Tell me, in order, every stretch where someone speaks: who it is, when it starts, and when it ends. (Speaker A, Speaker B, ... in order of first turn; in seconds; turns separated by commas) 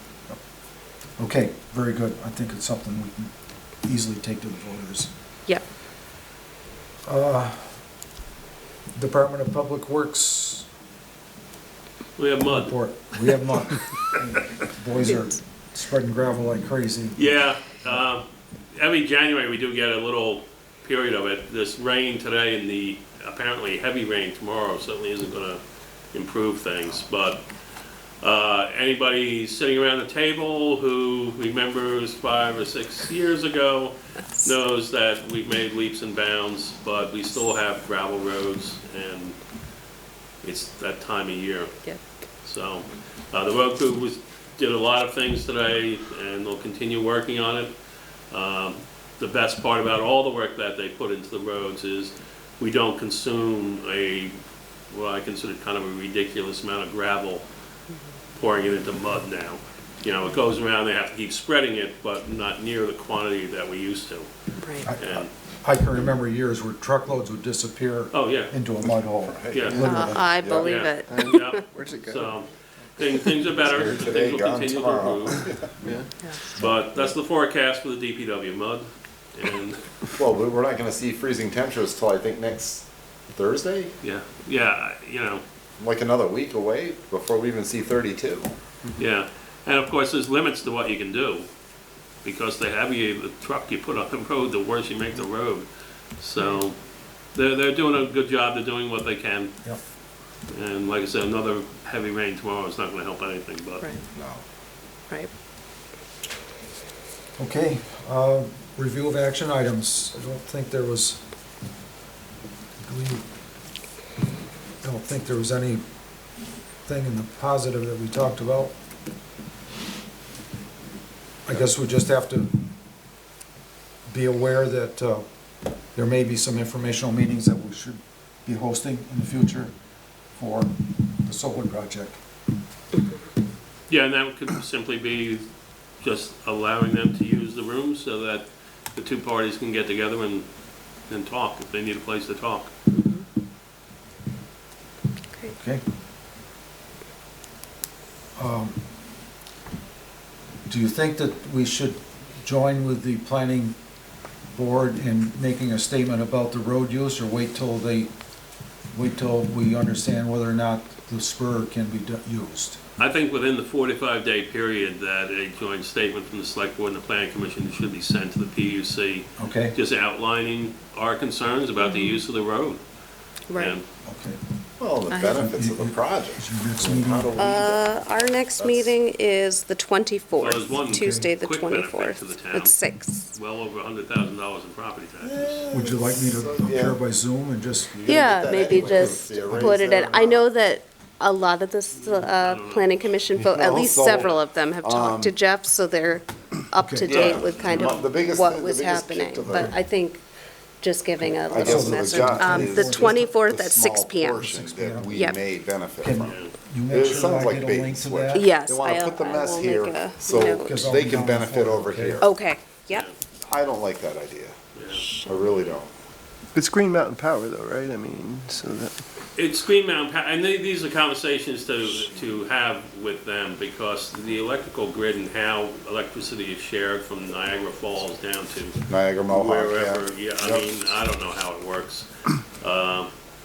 Speaker A: 1.2-5.1, Speaker A: 7.0-7.7, Speaker A: 8.9-10.7, Speaker B: 12.2-12.8, Speaker A: 12.5-17.2, Speaker C: 15.0-15.3, Speaker B: 17.1-25.6, Speaker B: 26.1-27.4, Speaker B: 28.2-39.4, Speaker B: 40.4-41.8, Speaker B: 42.4-47.7, Speaker B: 48.3-54.3, Speaker B: 54.9-57.5, Speaker B: 58.3-64.3, Speaker C: 64.6-64.9, Speaker A: 64.8-70.3, Speaker B: 65.0-65.3, Speaker B: 68.1-68.5, Speaker D: 69.2-70.9, Speaker B: 69.5-75.6, Speaker C: 69.8-71.6, Speaker E: 71.1-72.3, Speaker D: 73.6-75.7, Speaker E: 75.8-76.1, Speaker C: 76.2-76.5, Speaker B: 76.5-79.8, Speaker D: 80.1-83.9, Speaker B: 84.0-85.4, Speaker D: 85.8-88.5, Speaker B: 89.0-91.5, Speaker B: 92.2-96.8, Speaker B: 97.3-99.5, Speaker B: 100.5-103.8, Speaker D: 104.1-104.4, Speaker A: 107.4-111.2, Speaker A: 112.8-113.2, Speaker A: 114.8-115.8, Speaker A: 116.8-118.7, Speaker A: 121.5-122.6, Speaker A: 124.1-125.2, Speaker A: 125.9-129.7, Speaker A: 130.3-132.2, Speaker B: 133.9-135.4, Speaker B: 136.0-140.5, Speaker B: 141.1-142.7, Speaker C: 142.9-143.2, Speaker A: 145.5-145.8, Speaker A: 148.4-148.8, Speaker A: 150.7-153.8, Speaker A: 154.5-158.1, Speaker A: 158.9-162.8, Speaker B: 163.0-172.8, Speaker A: 169.4-169.8, Speaker C: 171.8-172.2, Speaker C: 173.5-173.8, Speaker B: 173.5-173.8, Speaker A: 174.1-174.4, Speaker D: 174.8-178.9, Speaker C: 175.1-175.4, Speaker A: 175.3-177.4, Speaker C: 177.4-183.3, Speaker B: 180.3-182.8, Speaker A: 180.9-181.3, Speaker B: 183.3-185.6, Speaker D: 185.2-187.0, Speaker A: 185.7-189.8, Speaker D: 187.9-190.4, Speaker C: 188.1-200.2, Speaker B: 191.9-193.1, Speaker D: 193.4-195.3, Speaker B: 193.9-194.3, Speaker A: 196.8-197.4, Speaker D: 197.1-199.8, Speaker B: 197.1-198.0, Speaker C: 200.8-204.4, Speaker A: 201.4-203.2, Speaker D: 201.5-212.3, Speaker A: 204.4-205.3, Speaker C: 205.1-205.4, Speaker A: 206.0-208.5, Speaker B: 206.2-206.5, Speaker C: 208.3-210.8, Speaker A: 210.4-212.2, Speaker C: 212.2-213.1, Speaker B: 212.9-213.1, Speaker D: 213.4-214.6, Speaker B: 214.7-215.1, Speaker C: 214.9-215.4, Speaker D: 215.2-215.9, Speaker E: 216.5-219.0, Speaker B: 219.3-233.1, Speaker D: 228.9-230.7